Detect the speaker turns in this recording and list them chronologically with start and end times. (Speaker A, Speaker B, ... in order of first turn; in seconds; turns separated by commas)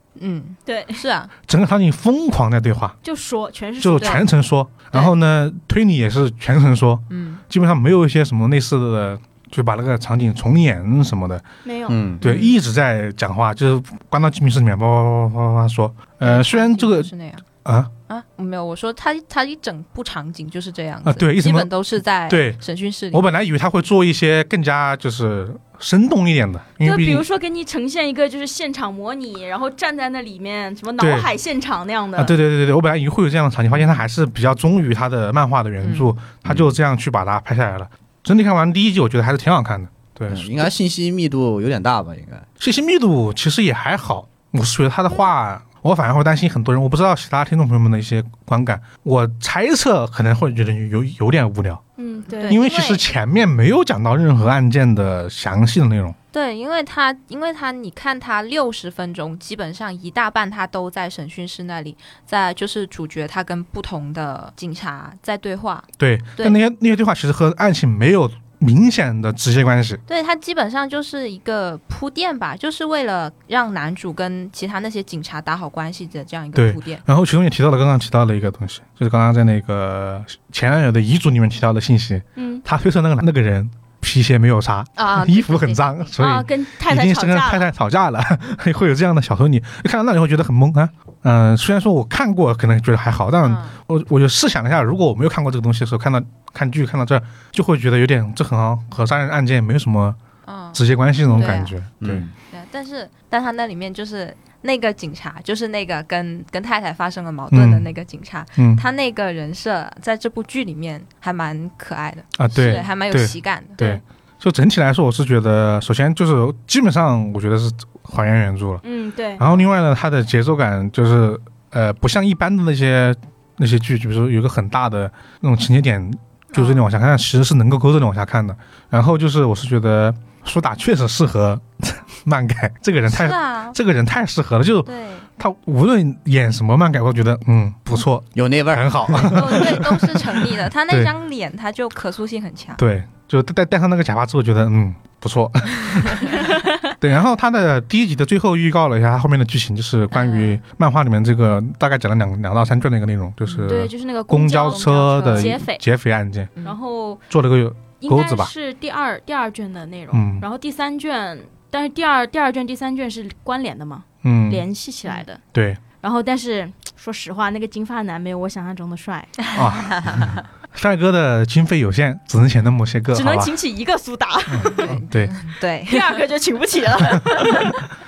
Speaker A: 0.1-1.3, Speaker B: 0.7-1.0, Speaker C: 1.5-3.0, Speaker B: 3.0-4.3, Speaker C: 3.8-11.4, Speaker A: 4.0-4.2, Speaker A: 7.1-7.4, Speaker B: 11.6-12.0, Speaker D: 11.9-12.2, Speaker C: 12.2-17.1, Speaker A: 12.2-12.5, Speaker A: 16.2-17.4, Speaker C: 17.6-17.9, Speaker A: 18.1-23.3, Speaker C: 21.0-21.7, Speaker C: 22.3-22.6, Speaker C: 23.1-27.2, Speaker B: 26.8-32.3, Speaker C: 31.0-31.3, Speaker C: 32.1-40.7, Speaker A: 35.8-36.1, Speaker D: 36.4-36.7, Speaker D: 40.3-42.5, Speaker C: 42.6-51.8, Speaker B: 52.0-52.6, Speaker A: 52.3-53.0, Speaker C: 52.5-56.1, Speaker A: 56.3-66.6, Speaker C: 66.0-70.0, Speaker A: 70.1-77.0, Speaker C: 76.5-100.2, Speaker B: 82.4-82.6, Speaker A: 85.0-86.1, Speaker B: 86.2-87.7, Speaker A: 93.4-93.8, Speaker A: 100.5-101.7, Speaker C: 100.7-102.2, Speaker D: 102.0-102.3, Speaker A: 102.5-114.0, Speaker C: 107.5-107.9, Speaker C: 108.6-108.8, Speaker C: 112.4-118.8, Speaker B: 112.6-112.9, Speaker B: 118.8-119.5, Speaker C: 119.4-140.3, Speaker A: 126.5-126.8, Speaker A: 133.1-133.8, Speaker A: 134.8-135.3, Speaker D: 138.3-139.7, Speaker A: 139.2-142.8, Speaker C: 142.8-156.5, Speaker A: 150.1-150.6, Speaker A: 153.4-153.9, Speaker B: 153.7-155.8, Speaker A: 154.6-155.6, Speaker B: 156.6-157.2, Speaker C: 157.3-158.5, Speaker B: 158.0-165.4, Speaker C: 160.1-160.4, Speaker C: 164.2-164.7, Speaker C: 165.5-165.8, Speaker B: 166.0-169.4, Speaker A: 169.5-170.4, Speaker C: 169.5-173.5, Speaker B: 173.1-174.9, Speaker C: 174.5-175.3, Speaker A: 174.6-176.2, Speaker B: 175.9-177.8